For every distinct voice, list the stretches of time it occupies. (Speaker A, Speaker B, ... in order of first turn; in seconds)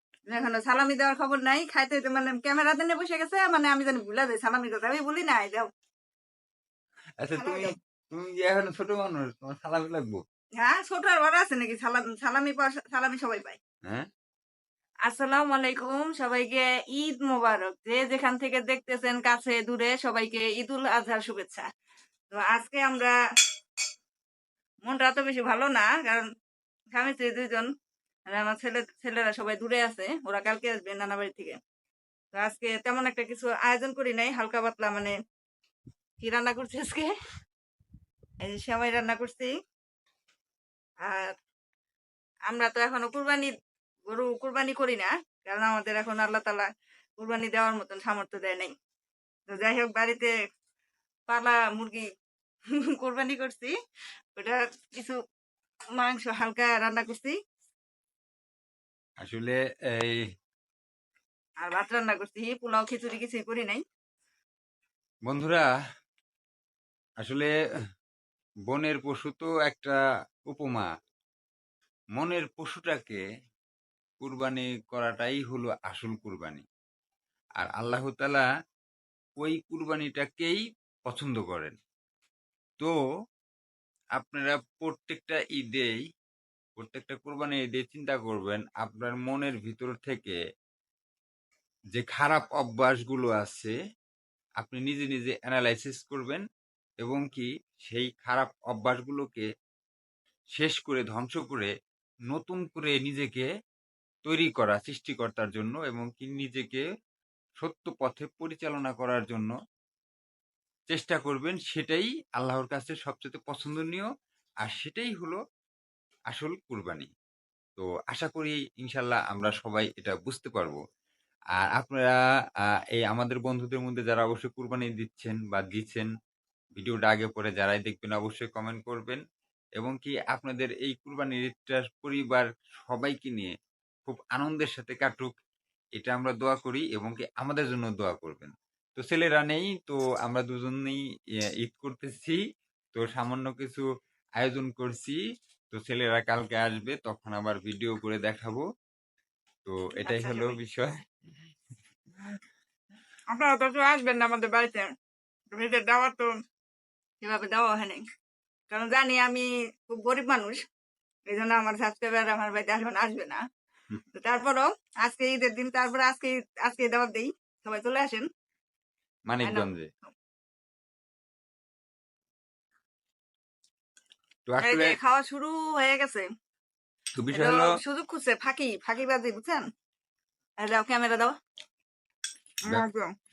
Speaker A: 0.3-5.7, 7.4-7.7, 10.6-13.6, 15.1-21.7, 22.3-23.1, 24.9-26.3, 26.9-27.7, 28.3-31.6, 32.3-35.1, 36.2-37.1, 38.4-39.5, 41.0-41.4, 42.5-43.5, 44.1-48.7, 49.5-50.3, 51.3-52.1, 52.9-53.7, 54.4-55.2, 56.0-57.4, 61.6-63.8, 150.0-150.6, 153.3-154.9, 155.5-156.3, 157.2-158.0, 158.7-160.6, 161.3-163.4, 164.1-168.3, 169.4-170.1, 174.6-176.3, 177.3-179.7, 180.6-181.4, 182.7-183.1
Speaker B: 7.2-10.2, 59.2-60.2, 65.3-65.7, 67.2-67.5, 68.7-70.9, 72.2-73.2, 74.2-76.7, 77.6-78.5, 79.4-81.8, 84.2-86.0, 86.8-90.4, 91.9-93.8, 94.6-96.4, 97.0-99.5, 100.5-101.7, 102.3-103.5, 104.2-106.8, 107.6-109.5, 110.9-114.1, 114.6-115.4, 116.3-117.1, 117.8-120.8, 121.6-126.1, 126.8-129.2, 129.8-133.5, 134.1-135.3, 136.0-142.4, 142.9-143.9, 144.4-145.2, 145.7-148.6, 149.7-151.0, 169.3-169.9, 174.5-175.0, 177.2-177.7